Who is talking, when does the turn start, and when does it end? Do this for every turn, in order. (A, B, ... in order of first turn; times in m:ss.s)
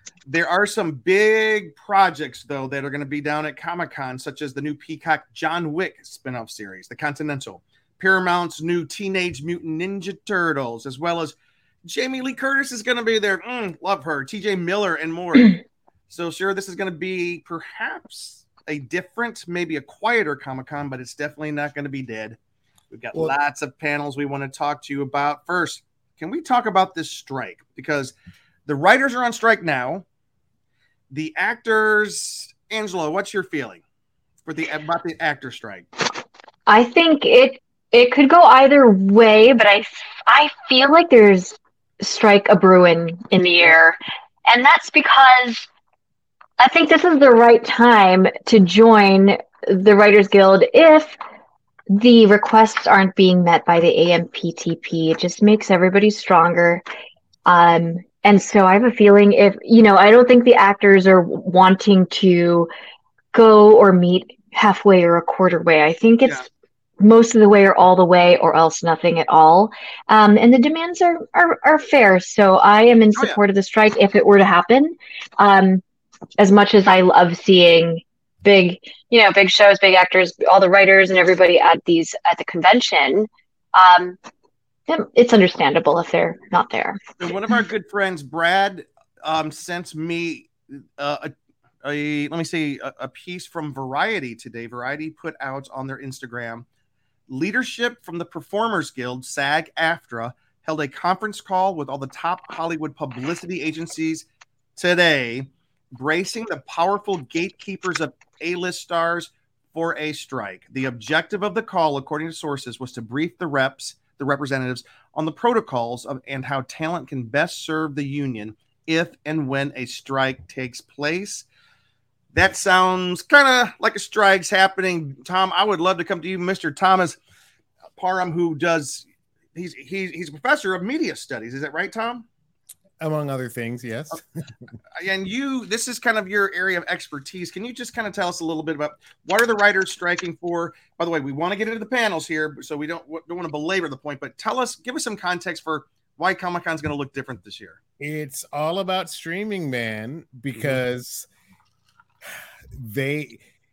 0:00.3-0:22.4 A
0:22.9-0:30.0 A
0:31.1-0:33.8 A
0:34.4-0:35.9 A
0:36.7-0:45.7 B
0:46.6-0:51.2 B
0:51.9-0:56.8 B
0:57.4-1:02.7 B
1:03.3-1:06.4 B
1:07.0-1:15.8 B
1:13.1-1:13.4 A
1:16.4-1:24.2 B
1:24.9-1:27.0 B
1:27.2-1:36.6 A
1:37.3-2:01.4 A
2:02.3-2:07.2 A
2:08.0-2:12.3 A
2:13.0-2:14.2 C
2:14.9-2:27.8 A
2:28.0-2:31.3 C
2:30.5-2:30.8 A
2:32.7-2:33.4 C